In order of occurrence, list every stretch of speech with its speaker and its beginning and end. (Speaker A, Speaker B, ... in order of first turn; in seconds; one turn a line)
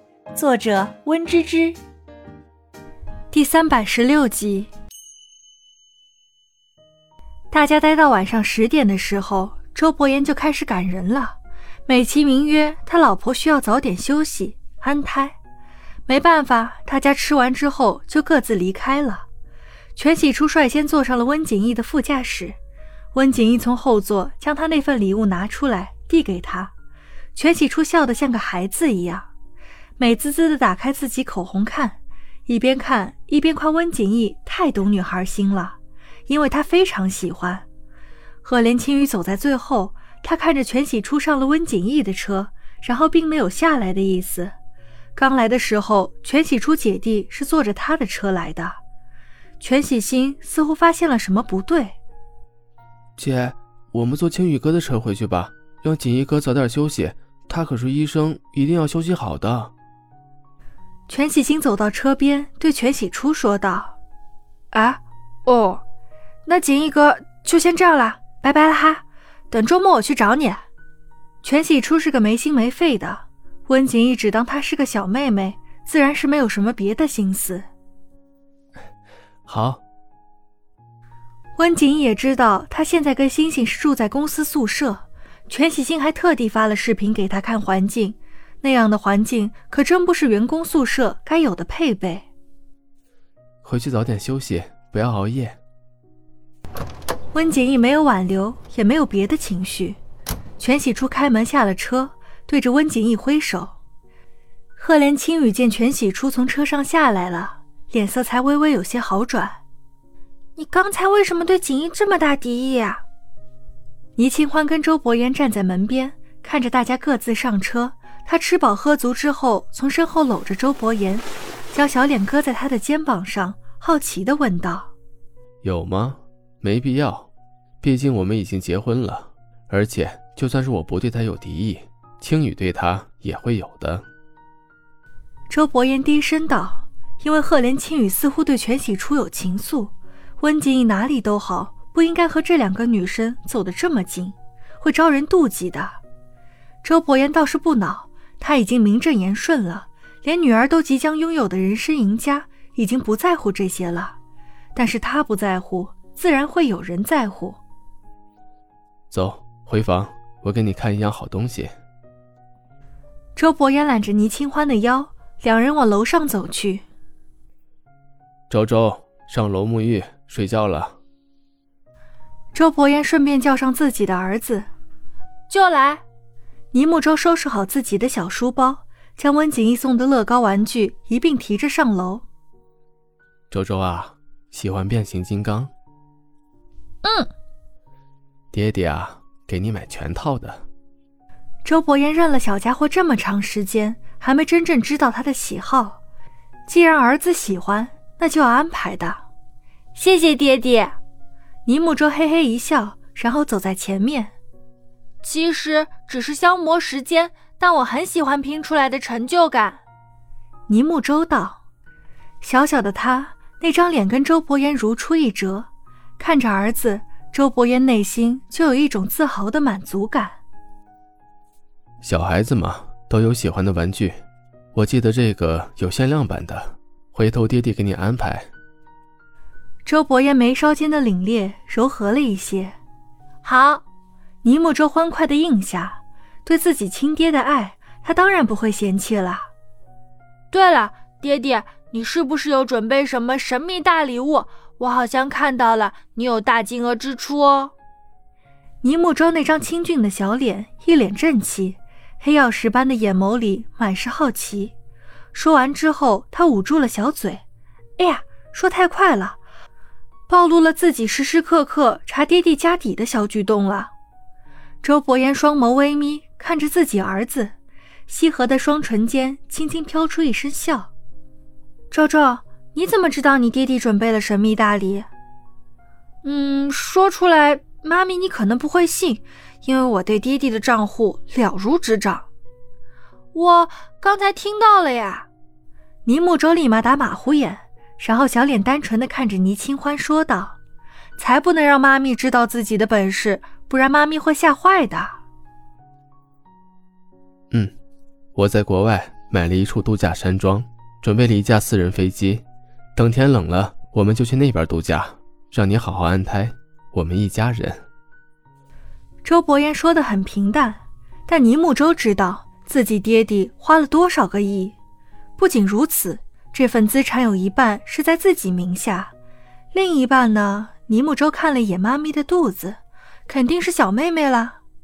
Speaker A: 0.3-1.8
Speaker A: 3.3-4.7
Speaker A: 7.5-15.4
Speaker A: 16.1-19.2
Speaker A: 19.9-22.6
Speaker A: 23.1-26.7
Speaker A: 27.3-29.3
Speaker A: 30.0-35.8
Speaker A: 36.3-37.6
Speaker A: 38.4-44.5
Speaker A: 45.1-48.8
Speaker A: 49.6-52.0
Speaker B: 53.2-59.7
Speaker A: 61.1-64.0
Speaker A: 64.7-65.8
Speaker A: 66.5-70.6
Speaker A: 71.4-77.7
Speaker B: 79.5-79.8
Speaker A: 81.5-92.2
Speaker B: 93.6-95.6
Speaker A: 97.3-100.0
Speaker A: 100.6-103.8
Speaker A: 104.8-109.6
Speaker A: 110.5-113.0
Speaker A: 114.2-124.9
Speaker B: 125.6-127.3
Speaker B: 127.8-134.0
Speaker A: 135.5-146.0
Speaker A: 146.8-154.2
Speaker A: 154.7-157.6
Speaker B: 159.1-161.7
Speaker A: 163.3-166.8
Speaker B: 168.5-171.0
Speaker A: 172.5-174.7
Speaker A: 175.5-176.0
Speaker A: 176.7-182.2
Speaker B: 183.5-185.7
Speaker A: 187.0-187.3
Speaker B: 188.5-190.6
Speaker A: 191.6-196.0
Speaker A: 196.7-199.2
Speaker A: 199.9-201.0
Speaker A: 201.7-204.3
Speaker A: 205.2-209.8
Speaker A: 210.7-211.6
Speaker A: 212.4-215.7
Speaker A: 216.2-220.4
Speaker B: 222.0-224.2
Speaker B: 224.7-228.5
Speaker A: 229.8-232.7
Speaker A: 233.4-233.8
Speaker A: 234.4-239.5
Speaker A: 240.5-247.7
Speaker A: 248.8-254.7
Speaker A: 255.3-257.4
Speaker A: 258.0-259.4
Speaker A: 260.3-263.9
Speaker A: 264.8-267.5
Speaker A: 268.1-270.9
Speaker A: 271.9-275.1
Speaker A: 276.2-282.3
Speaker A: 283.3-285.3
Speaker A: 286.0-290.6
Speaker A: 291.2-295.2
Speaker B: 298.3-302.4
Speaker B: 302.9-307.8
Speaker A: 309.2-314.7
Speaker A: 315.4-319.1
Speaker A: 319.7-324.6